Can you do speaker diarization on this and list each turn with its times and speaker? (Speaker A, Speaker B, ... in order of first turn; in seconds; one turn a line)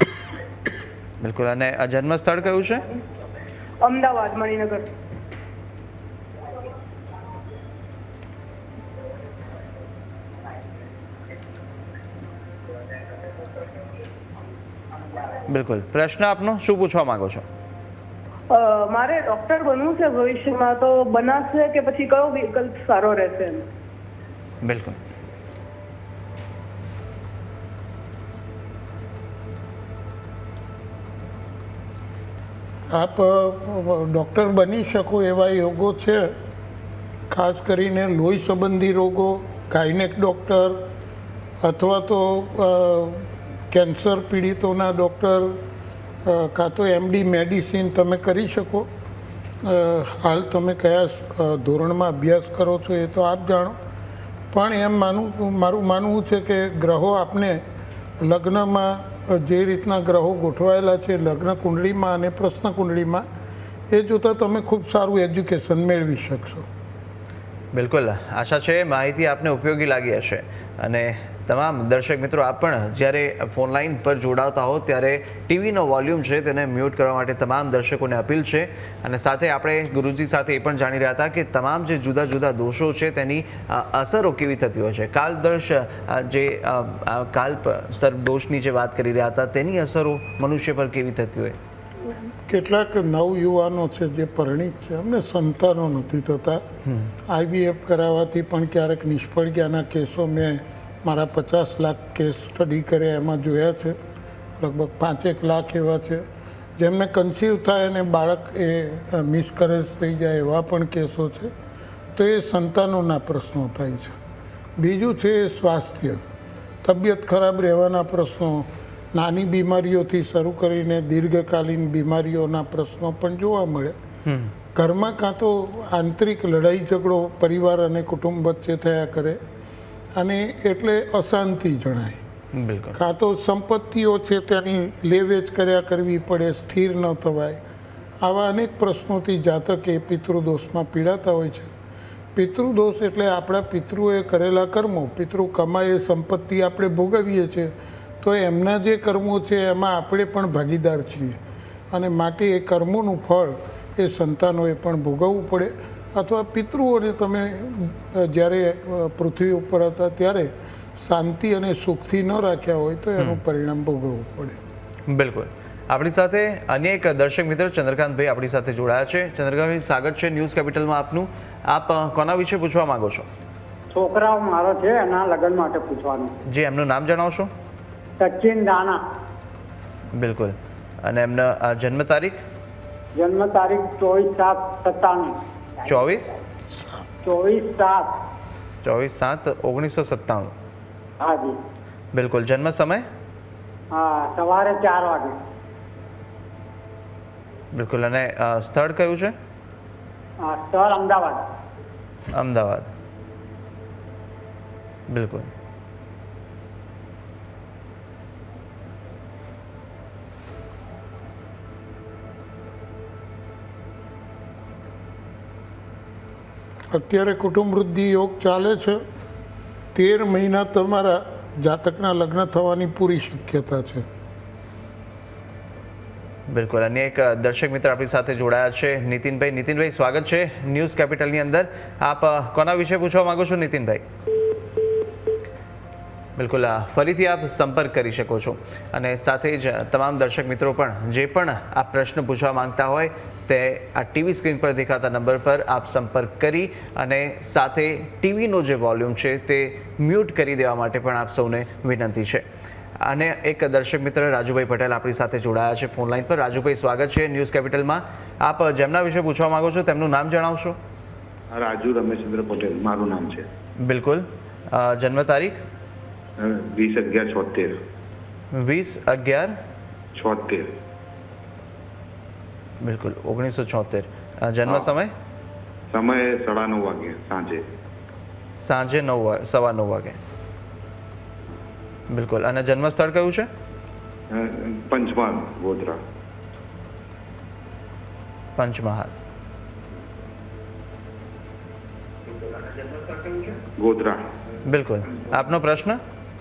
Speaker A: 1.2-2.9
Speaker B: 3.8-4.9
Speaker A: 15.5-17.4
Speaker B: 18.5-23.6
Speaker A: 24.6-25.0
Speaker C: 32.9-36.3
Speaker C: 37.3-40.8
Speaker C: 41.6-45.6
Speaker C: 46.3-48.9
Speaker C: 49.6-53.8
Speaker C: 54.5-57.6
Speaker C: 58.2-63.2
Speaker C: 63.9-66.7
Speaker A: 67.7-91.6
Speaker C: 92.4-96.6
Speaker A: 96.9-97.1
Speaker C: 97.3-104.0
Speaker C: 104.6-106.2
Speaker C: 106.8-111.5
Speaker C: 112.2-114.2
Speaker C: 114.8-116.2
Speaker C: 116.8-124.0
Speaker A: 124.2-124.5
Speaker C: 124.8-129.4
Speaker C: 130.2-132.2
Speaker A: 132.5-133.0
Speaker C: 132.9-137.6
Speaker C: 138.2-141.7
Speaker C: 142.4-151.4
Speaker C: 151.9-164.6
Speaker A: 165.1-173.3
Speaker D: 173.9-176.3
Speaker A: 176.5-177.5
Speaker D: 178.2-179.0
Speaker A: 180.1-182.4
Speaker D: 183.2-185.9
Speaker A: 185.8-186.3
Speaker D: 187.2-188.1
Speaker A: 188.8-190.5
Speaker D: 191.2-191.6
Speaker A: 192.1-193.1
Speaker D: 193.9-195.4
Speaker A: 197.7-199.3
Speaker D: 200.4-201.4
Speaker A: 202.3-202.9
Speaker A: 205.1-205.5
Speaker C: 216.9-219.0
Speaker C: 219.9-224.1
Speaker A: 226.5-234.0
Speaker A: 236.4-252.4
Speaker A: 253.0-260.8
Speaker E: 261.5-263.5
Speaker A: 263.8-265.6
Speaker E: 266.4-267.8
Speaker A: 268.5-269.6
Speaker E: 270.2-270.7
Speaker A: 272.8-275.1
Speaker E: 275.9-277.6
Speaker A: 278.6-280.2
Speaker A: 282.1-283.5
Speaker E: 284.3-286.0
Speaker A: 288.6-289.1
Speaker E: 293.3-294.2
Speaker A: 294.6-296.0